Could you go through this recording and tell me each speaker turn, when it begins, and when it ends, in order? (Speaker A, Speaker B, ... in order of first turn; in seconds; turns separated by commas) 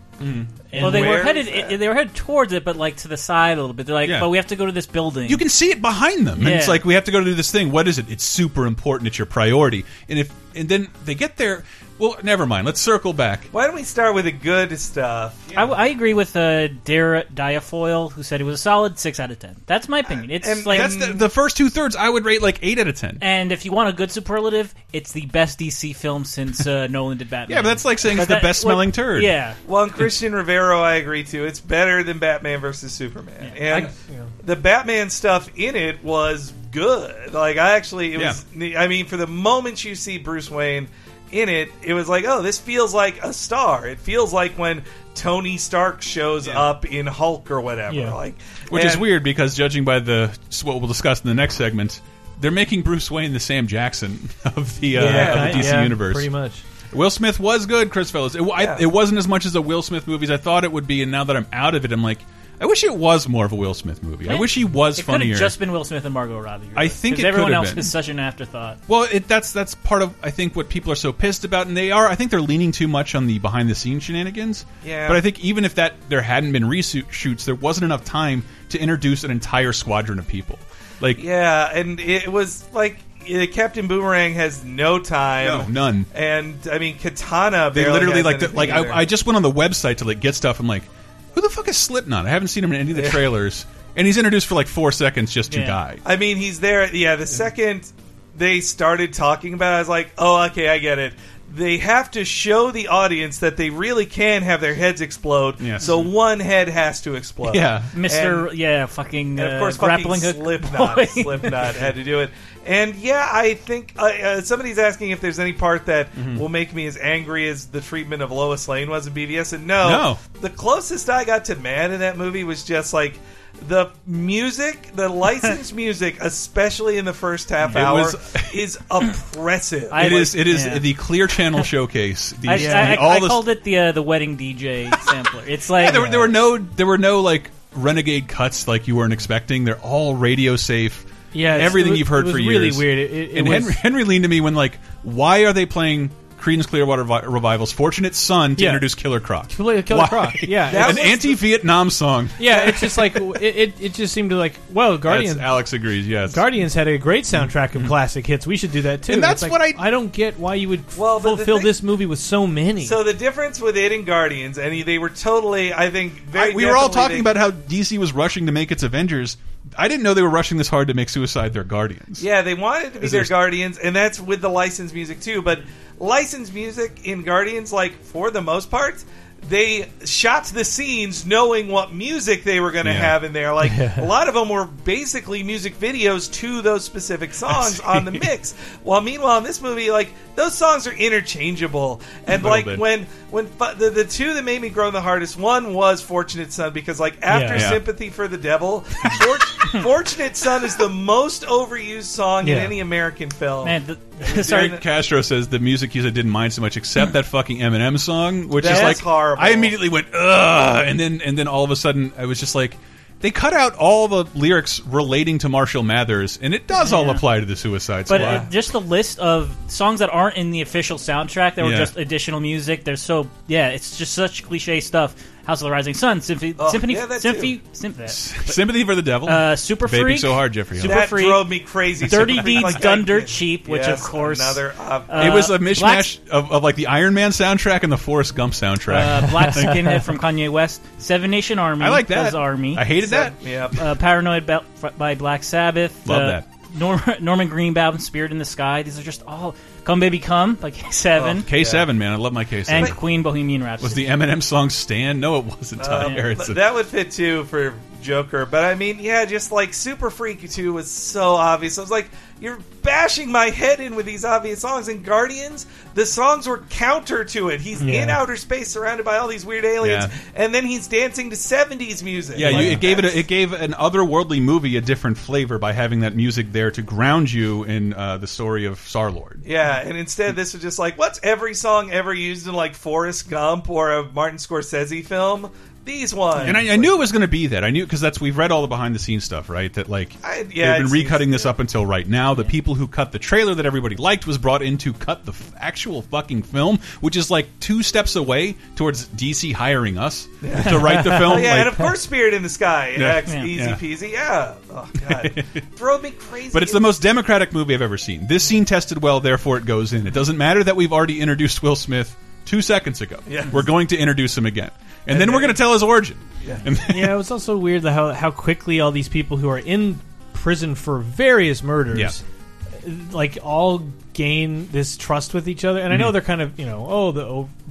Speaker A: 0.2-0.5, Speaker B: 0.7-1.2, Speaker C: 0.8-1.8, Speaker D: 0.8-5.4, Speaker A: 4.0-4.3, Speaker A: 5.3-13.5, Speaker D: 6.4-6.8, Speaker C: 13.5-15.5, Speaker D: 15.5-20.9, Speaker C: 20.1-21.3, Speaker A: 20.7-23.2, Speaker D: 23.2-29.6, Speaker A: 27.5-29.3, Speaker C: 29.6-49.1, Speaker B: 33.7-34.3, Speaker A: 38.1-38.4, Speaker B: 47.9-48.2, Speaker A: 48.7-56.3, Speaker B: 54.9-56.6, Speaker C: 55.0-55.9, Speaker A: 56.9-65.5, Speaker C: 58.6-58.8, Speaker D: 64.2-68.8, Speaker A: 66.7-67.9, Speaker A: 68.9-81.2, Speaker C: 74.8-75.2, Speaker C: 81.2-89.0, Speaker A: 85.4-86.1, Speaker A: 87.7-96.0, Speaker C: 92.9-93.2, Speaker D: 95.5-95.8, Speaker C: 96.0-108.5, Speaker A: 105.6-106.1, Speaker A: 107.5-107.9, Speaker D: 107.9-111.6, Speaker C: 109.3-130.7, Speaker A: 116.2-116.4, Speaker A: 119.8-120.2, Speaker A: 127.6-128.6, Speaker D: 129.9-130.9, Speaker A: 129.9-133.5, Speaker D: 132.5-136.3, Speaker B: 132.5-133.1, Speaker A: 135.7-153.4, Speaker B: 141.3-143.8, Speaker B: 148.6-148.9, Speaker B: 149.5-151.1, Speaker C: 150.7-151.4, Speaker B: 152.4-155.6, Speaker A: 155.0-156.4, Speaker B: 156.3-163.0, Speaker A: 157.3-157.9, Speaker A: 159.1-159.8, Speaker C: 160.9-161.8, Speaker C: 162.8-167.3, Speaker A: 166.3-172.2, Speaker C: 172.2-204.8, Speaker A: 173.0-173.3, Speaker A: 182.8-183.1, Speaker B: 183.6-184.1, Speaker A: 187.5-188.2, Speaker A: 192.3-192.8, Speaker B: 197.3-197.7, Speaker A: 197.5-197.8, Speaker B: 202.4-202.7, Speaker D: 203.6-204.8, Speaker A: 204.3-218.5, Speaker C: 208.5-209.8, Speaker D: 208.6-209.0, Speaker D: 216.8-217.2, Speaker D: 218.1-228.7, Speaker C: 218.1-218.5, Speaker A: 221.6-221.9, Speaker C: 226.6-227.5, Speaker A: 228.1-231.0, Speaker D: 229.2-236.1, Speaker C: 230.8-235.5, Speaker A: 235.2-240.0, Speaker D: 238.9-242.9, Speaker A: 241.8-243.4, Speaker C: 243.0-243.8, Speaker D: 243.8-251.5, Speaker A: 246.0-246.4, Speaker C: 251.2-251.9, Speaker A: 251.4-253.0, Speaker D: 252.7-254.1, Speaker A: 253.8-256.6, Speaker C: 255.8-273.2, Speaker B: 267.8-268.2, Speaker A: 269.8-270.1, Speaker A: 272.3-279.4, Speaker B: 272.4-272.8, Speaker C: 279.4-287.0, Speaker A: 286.4-301.9, Speaker C: 290.2-291.5, Speaker C: 300.4-306.9, Speaker A: 302.9-303.8, Speaker A: 305.0-305.6, Speaker A: 306.5-317.2, Speaker C: 313.2-313.6, Speaker C: 315.1-315.6, Speaker C: 316.4-316.7, Speaker B: 316.9-322.2, Speaker A: 321.9-322.2, Speaker B: 322.8-327.5, Speaker A: 325.9-326.1